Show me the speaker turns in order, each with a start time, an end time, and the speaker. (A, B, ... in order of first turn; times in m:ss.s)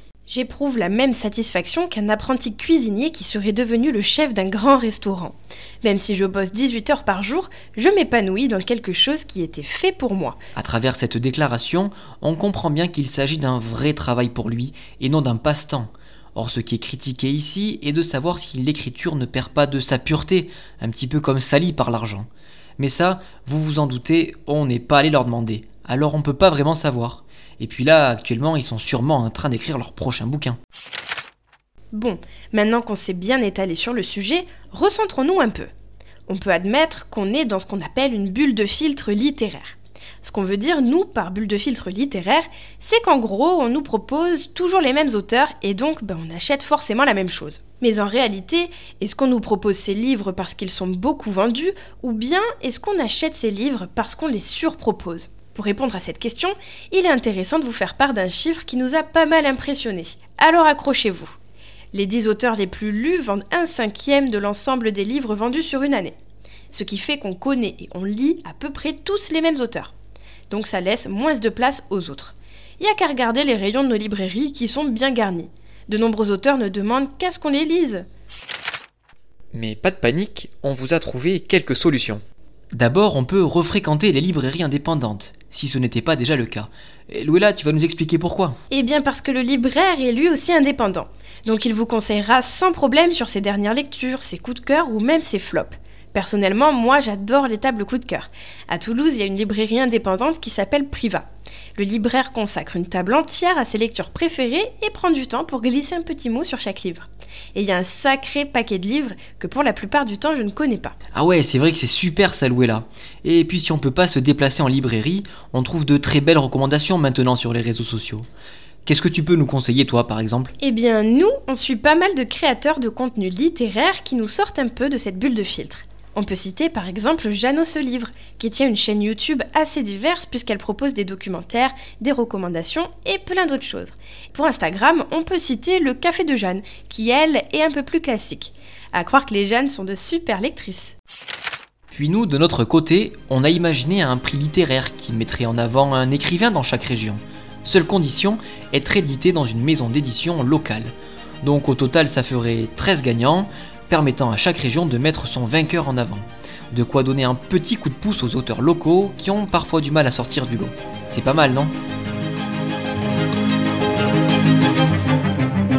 0:00.3-0:10.4 A
0:10.5-0:30.6 B
0:31.9-0:35.7 A
0:36.3-1:01.3 A
1:01.9-1:06.1 A
1:06.7-1:09.9 A
1:10.5-1:18.0 A
1:19.5-1:22.2 B
1:22.7-1:28.6 B
1:28.7-1:51.0 A
1:51.1-1:58.3 B
1:58.8-2:00.5 B
2:00.6-2:21.0 A
2:21.9-2:41.7 B